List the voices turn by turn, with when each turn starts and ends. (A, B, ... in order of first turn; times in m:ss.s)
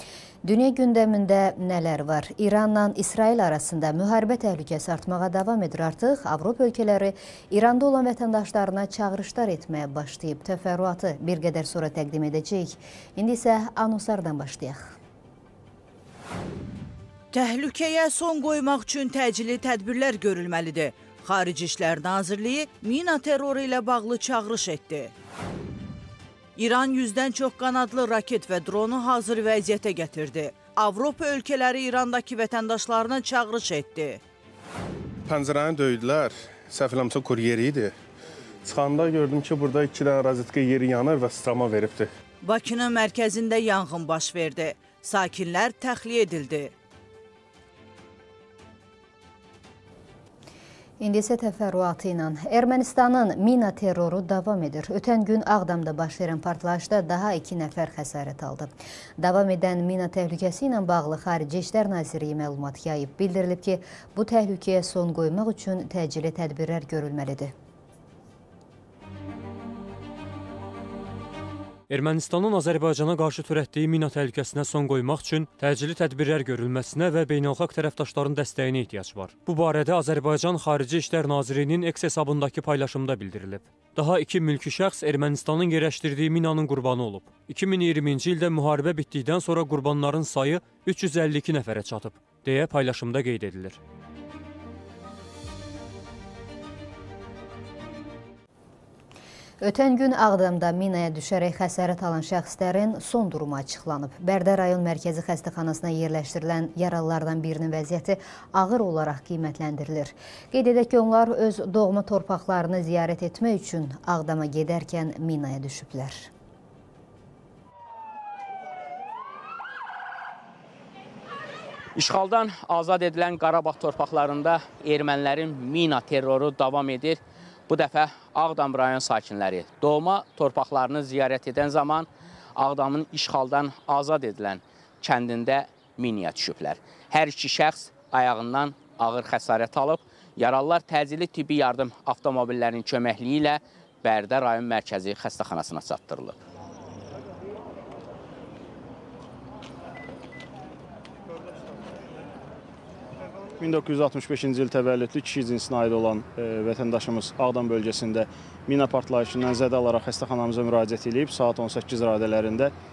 0:00.4-0:15.0 A
0:17.3-0:25.1 B
0:26.6-0:34.2 B
0:35.3-0:37.9 C
0:38.6-0:42.1 C
0:42.4-0:46.7 B
0:51.0-1:07.5 A
1:11.9-1:33.8 D
1:39.6-1:56.3 A
2:02.0-2:26.4 E
2:33.6-2:42.7 F